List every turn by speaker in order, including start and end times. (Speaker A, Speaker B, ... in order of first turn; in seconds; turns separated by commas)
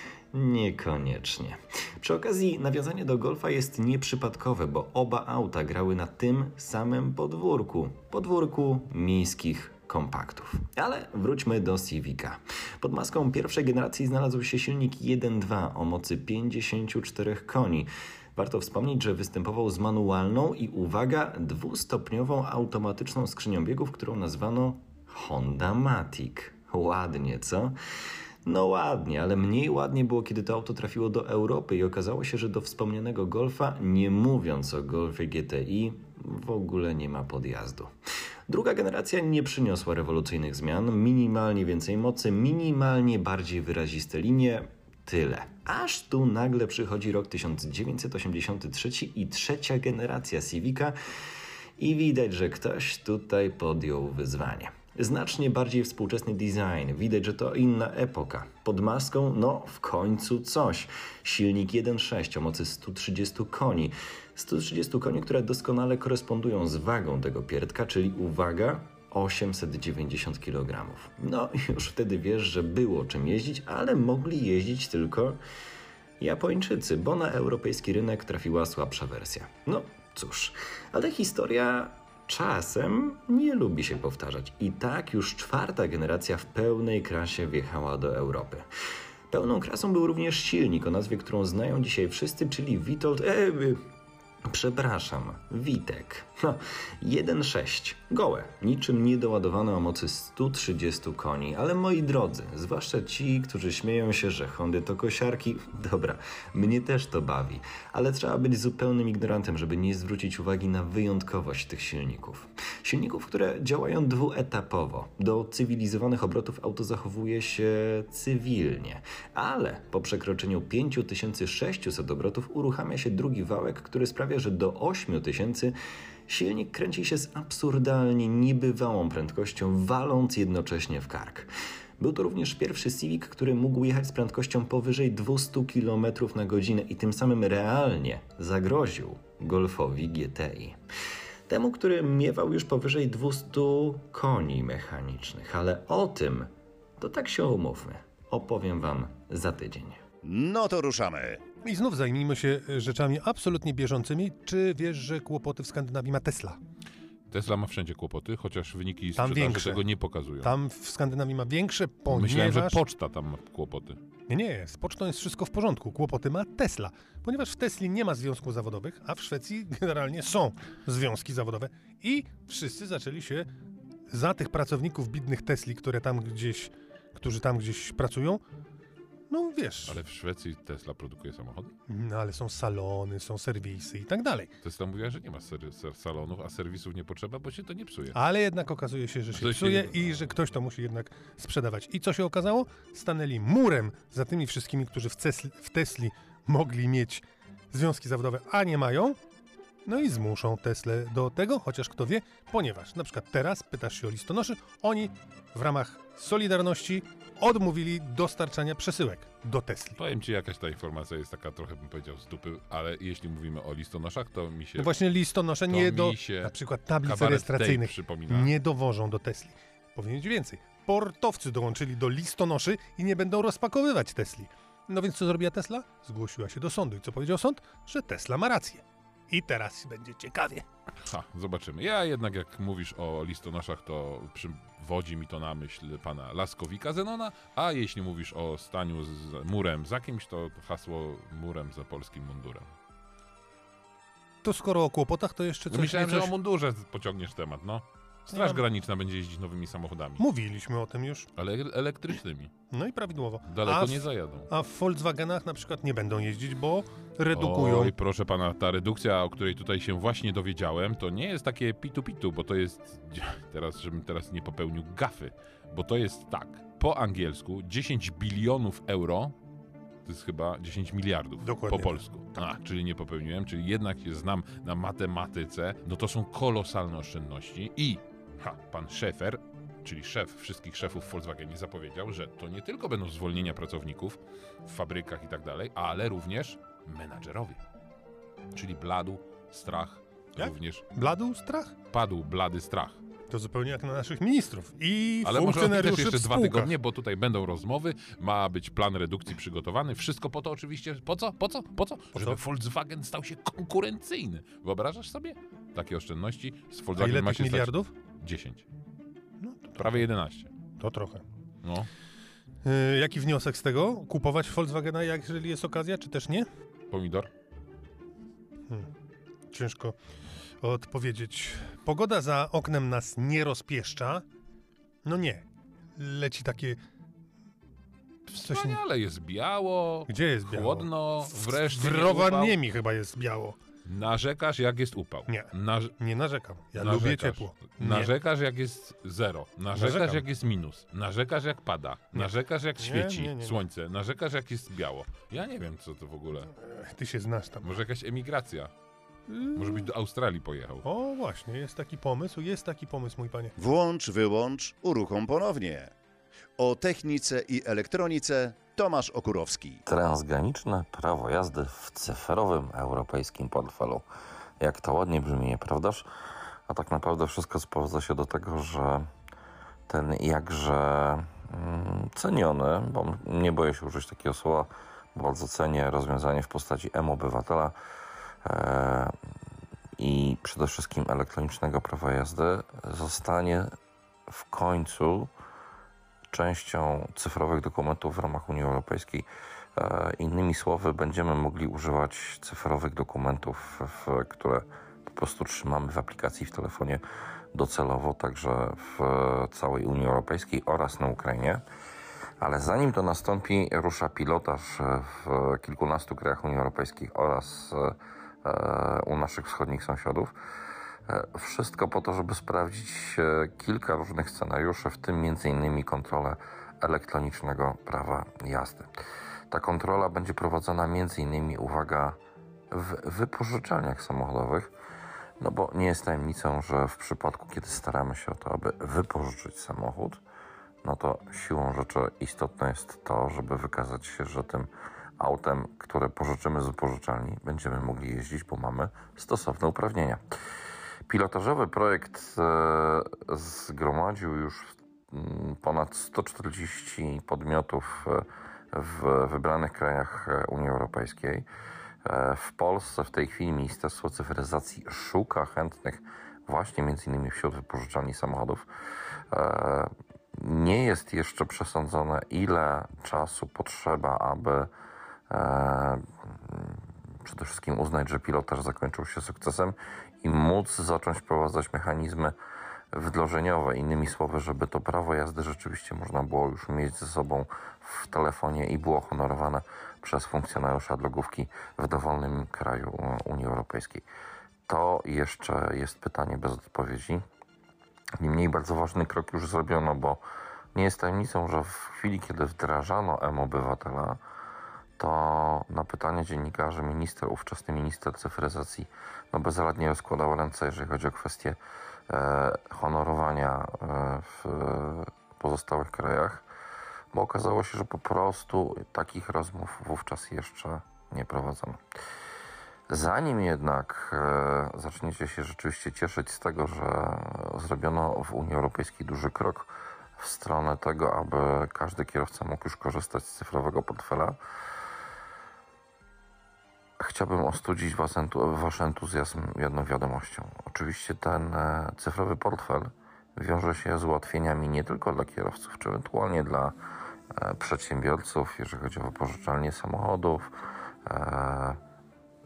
Speaker A: 0.3-27.8, Speaker A: 28.4-37.9, Speaker A: 38.5-51.0, Speaker A: 51.8-75.4, Speaker A: 76.2-88.7, Speaker A: 89.3-93.8, Speaker A: 94.5-125.8, Speaker A: 126.3-140.8, Speaker A: 141.5-150.0, Speaker B: 150.2-151.4, Speaker C: 151.6-156.6, Speaker D: 157.3-160.5, Speaker C: 159.2-159.9, Speaker C: 160.4-162.8, Speaker D: 162.1-164.0, Speaker C: 164.3-173.5, Speaker C: 174.1-178.4, Speaker C: 179.3-180.0, Speaker D: 179.8-181.7, Speaker C: 181.9-184.5, Speaker D: 184.6-188.2, Speaker C: 188.1-199.2, Speaker D: 189.3-190.3, Speaker C: 199.8-210.0, Speaker D: 210.0-215.0, Speaker C: 214.8-230.7, Speaker D: 215.7-218.5, Speaker D: 231.0-242.7, Speaker C: 244.4-246.3, Speaker D: 245.7-250.2, Speaker C: 248.3-248.6, Speaker C: 250.2-251.3, Speaker D: 251.4-252.5, Speaker C: 252.7-257.9, Speaker D: 253.4-254.5, Speaker D: 257.3-269.4, Speaker D: 270.0-287.6, Speaker C: 271.4-272.0, Speaker D: 288.5-290.9, Speaker C: 290.4-291.7, Speaker D: 291.9-293.0, Speaker C: 293.3-296.7, Speaker D: 295.2-308.6, Speaker C: 302.1-302.4, Speaker C: 306.9-307.9, Speaker C: 309.4-310.1, Speaker D: 309.8-310.5, Speaker C: 310.8-311.2, Speaker D: 311.6-311.9, Speaker C: 312.6-316.5, Speaker D: 316.9-317.3, Speaker C: 319.5-320.0, Speaker C: 320.6-324.2, Speaker C: 325.0-326.8, Speaker D: 328.3-332.6, Speaker C: 328.4-328.8, Speaker C: 330.1-333.6, Speaker D: 333.9-335.9, Speaker C: 335.3-338.1, Speaker D: 336.7-346.5, Speaker C: 339.7-340.2, Speaker C: 342.1-343.6, Speaker C: 346.5-347.8, Speaker D: 347.6-348.7, Speaker C: 349.3-349.9, Speaker D: 349.5-350.9, Speaker C: 350.8-353.5, Speaker B: 353.6-355.9, Speaker B: 356.6-359.8, Speaker E: 359.9-364.1, Speaker E: 364.6-366.1, Speaker E: 366.7-369.1, Speaker E: 369.9-377.7, Speaker E: 378.4-379.1, Speaker E: 380.0-383.7, Speaker E: 384.3-385.3, Speaker E: 386.3-397.0, Speaker E: 397.5-401.6, Speaker E: 402.4-410.3, Speaker E: 411.1-418.9, Speaker E: 419.5-422.2, Speaker E: 422.7-424.7, Speaker E: 425.4-430.2, Speaker E: 430.8-440.2, Speaker E: 441.1-451.4, Speaker E: 452.1-458.6, Speaker E: 459.3-464.7, Speaker E: 465.3-472.3, Speaker E: 472.9-484.0, Speaker E: 484.7-487.2, Speaker E: 488.2-490.2, Speaker E: 490.7-494.2, Speaker E: 495.0-506.4, Speaker E: 507.1-511.8, Speaker E: 512.9-524.4, Speaker E: 527.0-536.7, Speaker E: 537.3-540.5, Speaker E: 541.1-541.8